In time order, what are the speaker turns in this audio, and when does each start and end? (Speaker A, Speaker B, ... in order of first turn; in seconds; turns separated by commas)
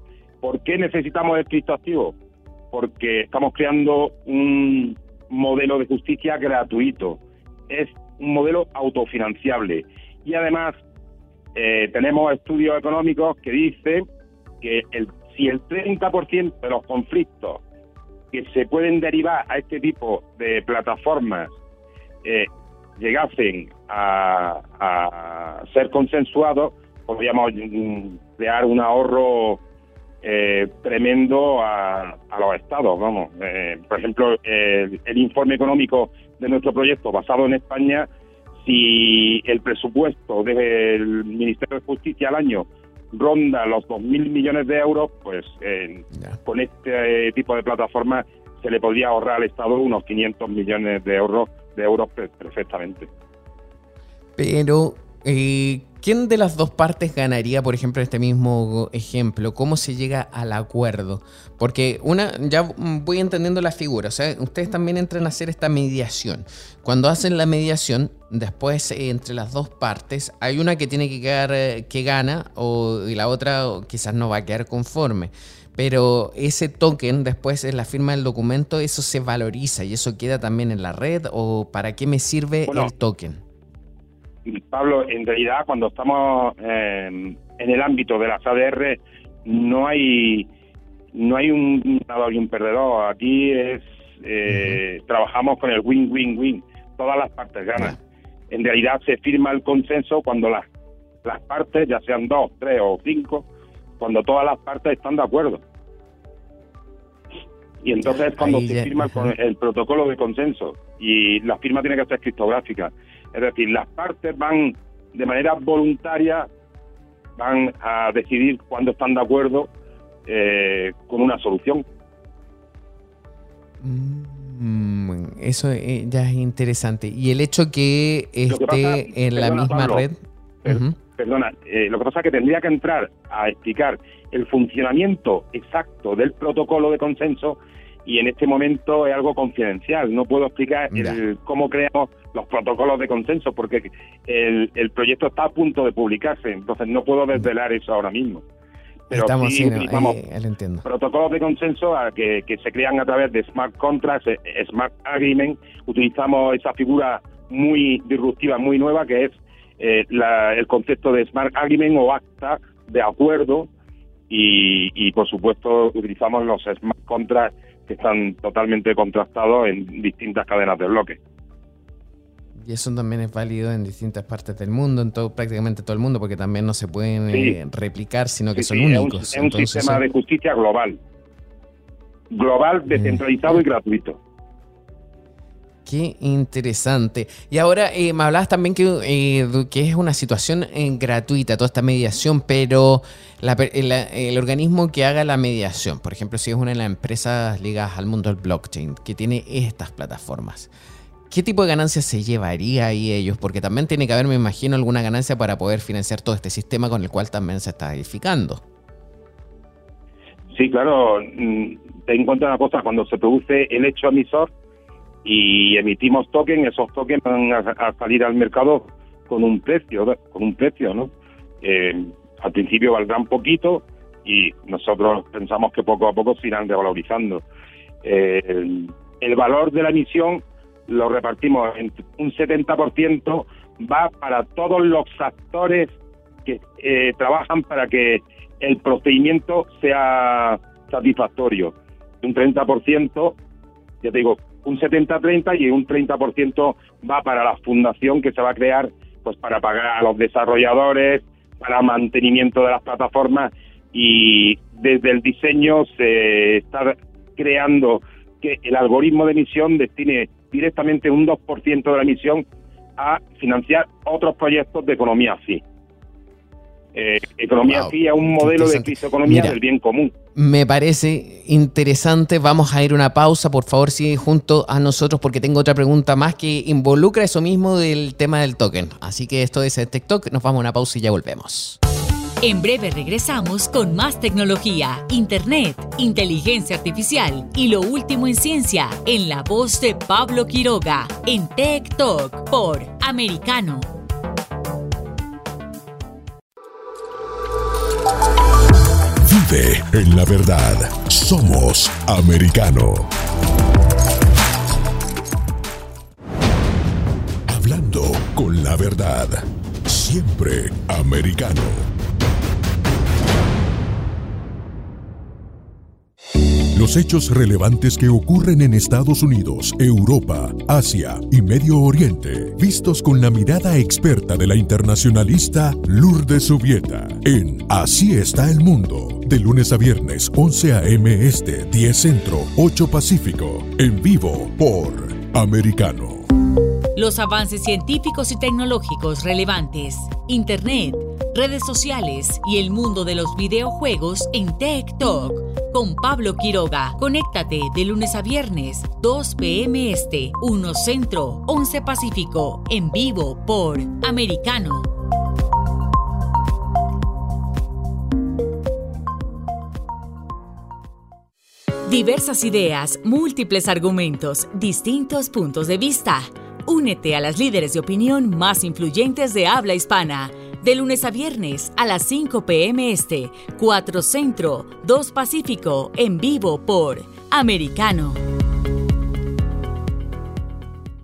Speaker A: 0.4-2.1, Speaker A: 2.7-10.7, Speaker A: 11.5-14.0, Speaker A: 14.6-17.6, Speaker A: 18.3-21.5, Speaker A: 22.2-29.6, Speaker A: 30.2-38.1, Speaker A: 38.6-53.1, Speaker B: 54.4-83.4, Speaker A: 84.5-90.5, Speaker A: 91.1-98.0, Speaker B: 94.5-94.8, Speaker A: 98.5-100.6, Speaker A: 101.2-103.5, Speaker A: 104.0-105.6, Speaker A: 107.8-116.5, Speaker B: 108.0-109.3, Speaker A: 117.4-119.7, Speaker A: 120.2-121.8, Speaker B: 123.8-130.9, Speaker A: 128.5-130.0, Speaker A: 130.6-148.4, Speaker B: 140.9-141.2, Speaker A: 149.1-150.2, Speaker B: 149.1-150.8, Speaker A: 150.8-163.7, Speaker A: 164.3-171.2, Speaker B: 172.6-180.0, Speaker A: 177.3-177.6, Speaker A: 178.5-181.0, Speaker A: 182.3-184.2, Speaker B: 182.9-183.6, Speaker B: 185.8-200.7, Speaker B: 201.3-208.6, Speaker A: 210.5-214.5, Speaker A: 215.2-221.1, Speaker A: 221.6-227.4, Speaker A: 228.0-235.9, Speaker A: 236.4-243.3, Speaker A: 244.0-262.4, Speaker A: 263.0-265.6, Speaker A: 266.9-270.1, Speaker B: 267.6-269.6, Speaker B: 270.3-281.8, Speaker C: 282.4-293.9, Speaker D: 299.2-303.1, Speaker D: 307.5-311.9, Speaker D: 316.7-336.3, Speaker C: 336.9-354.9, Speaker C: 361.9-378.2